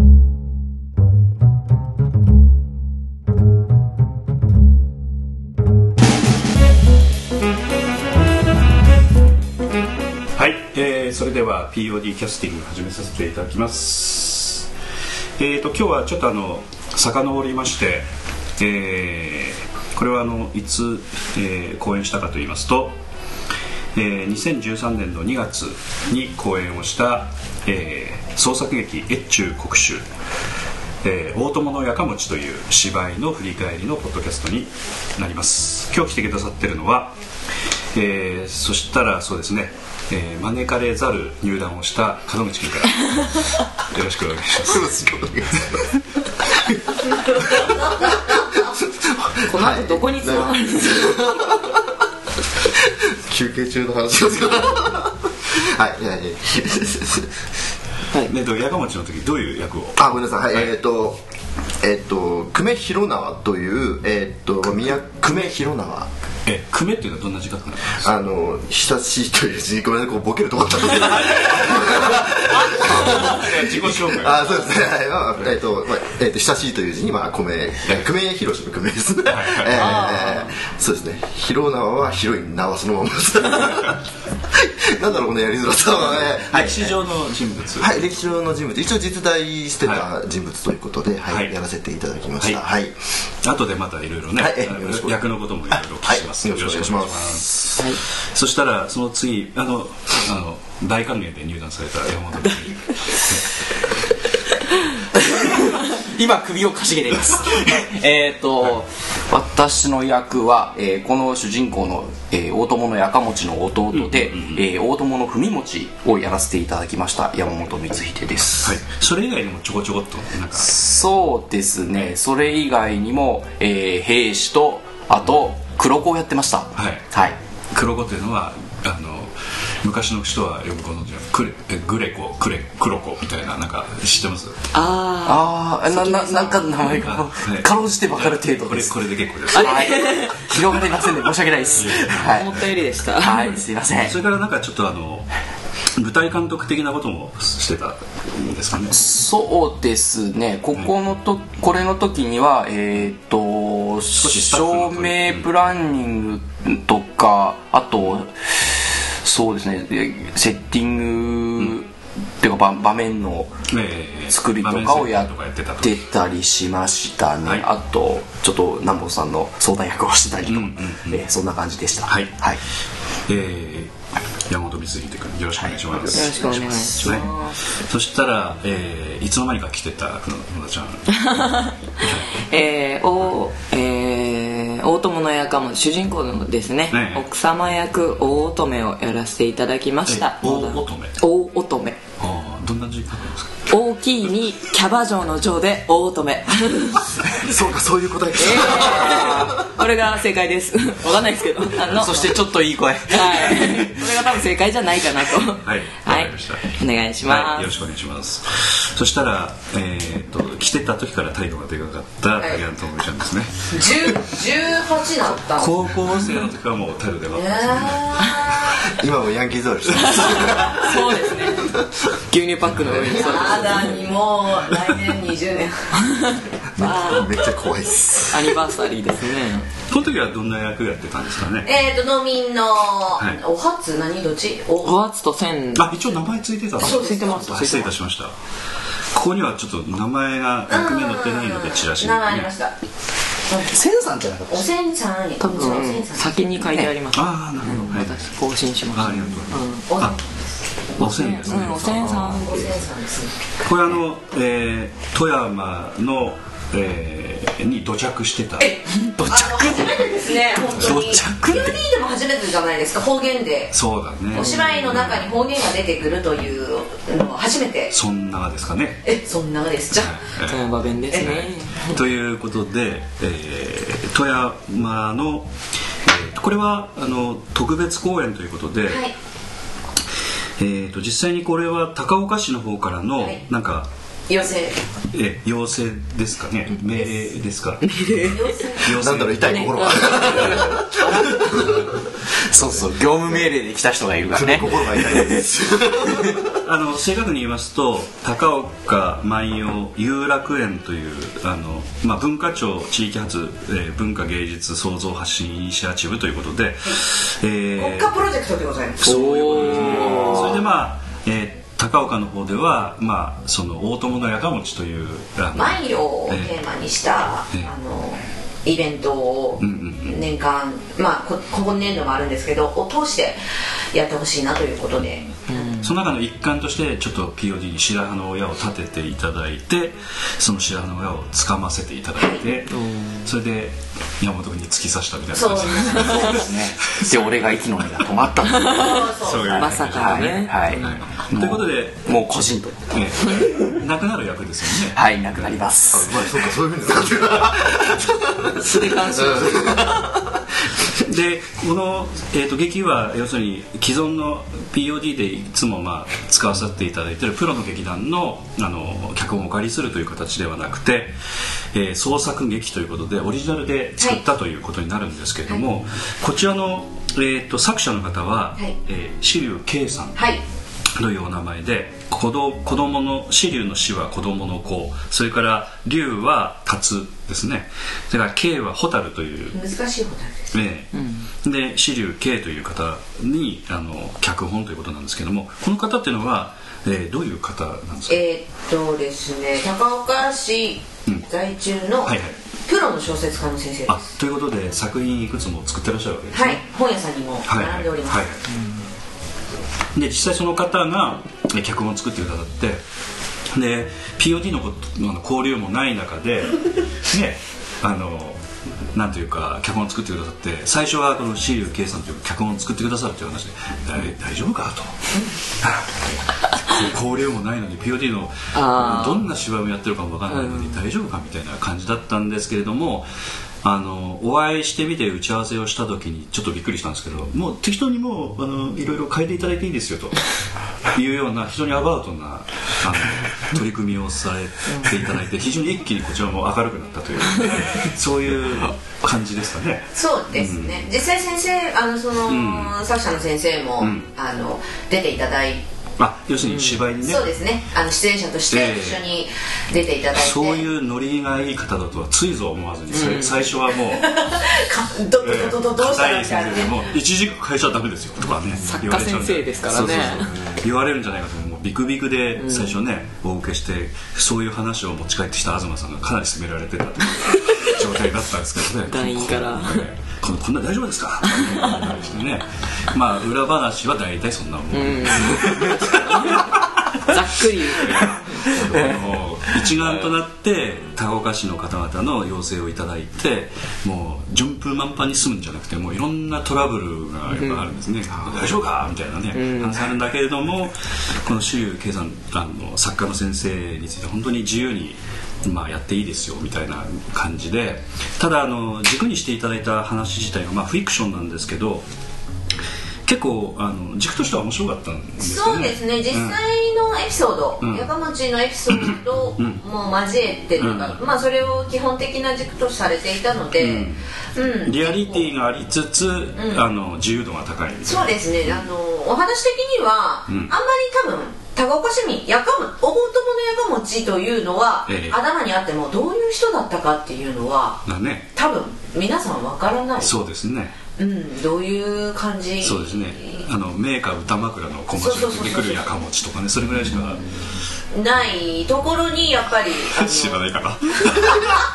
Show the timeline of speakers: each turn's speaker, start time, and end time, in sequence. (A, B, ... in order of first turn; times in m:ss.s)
0:10.3-0:14.7 A
0:15.4-0:23.0 A
0:23.9-0:30.0 A
0:31.0-0:37.1 A
0:37.9-0:44.9 A
0:44.6-0:45.8 B
0:46.7-0:52.0 B
0:49.4-0:51.2 C
0:52.6-0:57.3 B
0:58.2-1:00.7 A
1:00.0-1:01.2 B
1:01.8-1:06.1 B
1:06.4-1:08.1 A
1:07.9-1:27.0 B
1:11.1-1:14.8 A
1:19.3-1:20.1 A
1:19.7-1:20.5 C
1:26.5-1:28.0 A
1:27.8-1:33.0 B
1:33.4-1:43.4 A
1:34.4-1:37.8 B
1:45.1-1:58.8 D
1:53.9-1:54.6 A
1:58.6-2:00.7 A
2:00.5-2:07.4 D
2:06.8-2:07.0 A
2:07.7-2:14.6 A
2:14.7-2:16.8 C
2:15.2-2:19.0 D
2:16.9-2:20.1 A
2:19.5-2:22.6 D
2:19.5-2:20.4 C
2:21.8-2:22.3 A
2:22.3-2:23.6 C
2:23.1-2:24.2 D
2:24.0-2:25.3 A
2:26.0-2:29.0 A
2:28.9-2:41.9 D
2:34.2-2:35.5 A
2:42.4-2:43.6 D
2:43.7-2:46.0 A
2:44.3-2:45.3 D
2:45.8-2:52.6 D
2:50.4-2:51.2 A
2:52.0-2:52.4 A
2:53.3-2:53.9 A
2:54.5-3:01.3 A
2:55.6-2:57.3 D
2:56.1-2:57.6 C
3:01.1-3:01.7 C
3:02.0-3:02.3 A
3:02.3-3:12.0 C
3:06.9-3:07.2 A
3:10.1-3:11.2 A
3:12.2-3:13.7 A
3:13.7-3:17.1 C
3:17.3-3:19.5 B
3:18.4-3:22.4 C
3:21.9-3:24.2 D
3:23.1-3:27.7 C
3:25.6-3:34.1 A
3:33.7-3:35.8 E
3:35.5-3:38.5 A
3:37.3-3:38.9 E
3:38.8-3:41.8 B
3:40.0-3:43.9 C
3:43.1-3:46.2 E
3:46.0-3:47.3 C
3:46.7-3:48.6 B
3:48.3-3:49.7 C
3:49.9-3:51.7 A
3:51.6-3:55.0 E
3:54.8-3:55.8 C
3:55.8-3:58.3 A
3:56.8-3:57.9 C
3:56.8-3:57.6 E
3:59.1-4:02.5 A
4:00.7-4:02.7 E
4:03.6-4:04.6 D
4:04.5-4:06.3 E
4:05.4-4:09.8 C
4:07.1-4:08.3 A
4:08.9-4:10.2 A
4:09.9-4:10.2 E
4:11.0-4:12.8 A
4:11.0-4:12.6 C
4:11.5-4:13.4 E
4:13.6-4:18.8 A
4:18.6-4:23.7 E
4:19.2-4:20.0 D
4:20.6-4:21.6 A
4:20.7-4:21.7 D
4:23.7-4:25.3 A
4:24.3-4:27.9 E
4:27.9-4:29.0 A
4:29.0-4:30.1 E
4:29.9-4:35.5 A
4:30.4-4:32.0 C
4:36.0-4:39.1 A
4:38.9-4:39.1 E
4:40.6-4:43.9 A
4:44.3-4:44.8 E
4:45.1-4:50.8 A
4:47.9-4:48.3 C
4:48.1-4:51.4 E
4:48.9-4:51.9 B
4:52.4-4:55.5 D
4:54.3-4:56.5 B
4:56.6-5:08.2 A
5:07.8-5:10.6 E
5:09.0-5:16.6 A
5:09.0-5:10.4 D
5:09.6-5:10.6 C
5:15.5-5:23.4 E
5:19.6-5:20.3 A
5:23.9-5:25.6 E
5:25.5-5:25.9 C
5:25.8-5:37.6 A
5:32.8-5:33.2 C
5:35.3-5:36.5 E
5:36.2-5:39.1 D
5:38.6-5:39.0 C
5:38.7-5:39.7 E
5:39.2-5:42.1 A
5:39.5-5:40.6 C
5:39.8-5:42.8 D
5:42.9-5:45.6 A
5:44.9-5:46.2 D
5:45.9-5:50.4 B
5:48.6-5:49.7 C
5:51.0-6:01.1 A
6:01.7-6:10.3 A
6:10.2-6:10.4 E
6:11.0-6:19.6 A
6:19.5-6:20.5 E
6:20.5-6:28.2 A
6:20.9-6:21.2 C
6:28.1-6:34.0 E
6:32.0-6:32.3 A
6:33.9-6:36.6 A
6:36.3-6:38.2 E
6:37.4-6:38.4 A
6:39.9-6:42.8 A
6:43.5-6:48.4 A
6:48.9-6:55.0 A
6:55.6-7:03.1 A
6:58.5-6:59.2 C
7:00.3-7:00.8 C
7:03.6-7:10.2 A
7:10.9-7:20.8 A
7:19.9-7:25.6 E
7:22.2-7:22.8 A
7:23.8-7:24.1 A
7:26.0-7:27.3 A
7:26.4-7:26.8 C
7:27.0-7:30.7 E
7:28.5-7:29.0 A
7:30.1-7:34.2 A
7:32.9-7:33.4 C
7:33.8-7:36.8 E
7:35.2-7:56.4 A
7:38.6-7:40.4 C
7:42.4-7:42.7 C
7:48.9-7:49.8 C
7:51.3-7:51.8 C
7:54.7-7:56.4 C
7:57.0-7:58.4 C
7:57.6-8:21.8 A
7:58.5-7:59.0 D
8:07.4-8:07.6 C
8:09.3-8:09.8 C
8:23.0-8:26.4 A
8:25.2-8:35.3 E
8:27.6-8:27.9 A
8:28.7-8:29.6 A
8:30.6-8:31.0 A
8:33.6-8:34.0 A
8:34.6-8:38.7 A
8:36.4-8:36.6 E
8:37.8-8:47.8 E
8:40.3-8:40.5 A
8:44.9-8:45.2 A
8:47.8-8:48.3 A
8:48.3-8:50.2 E
8:50.0-8:50.8 A
8:51.0-8:53.4 E
8:52.6-8:57.3 A
8:54.9-8:55.9 E
8:57.9-9:00.4 E
8:59.8-9:01.5 A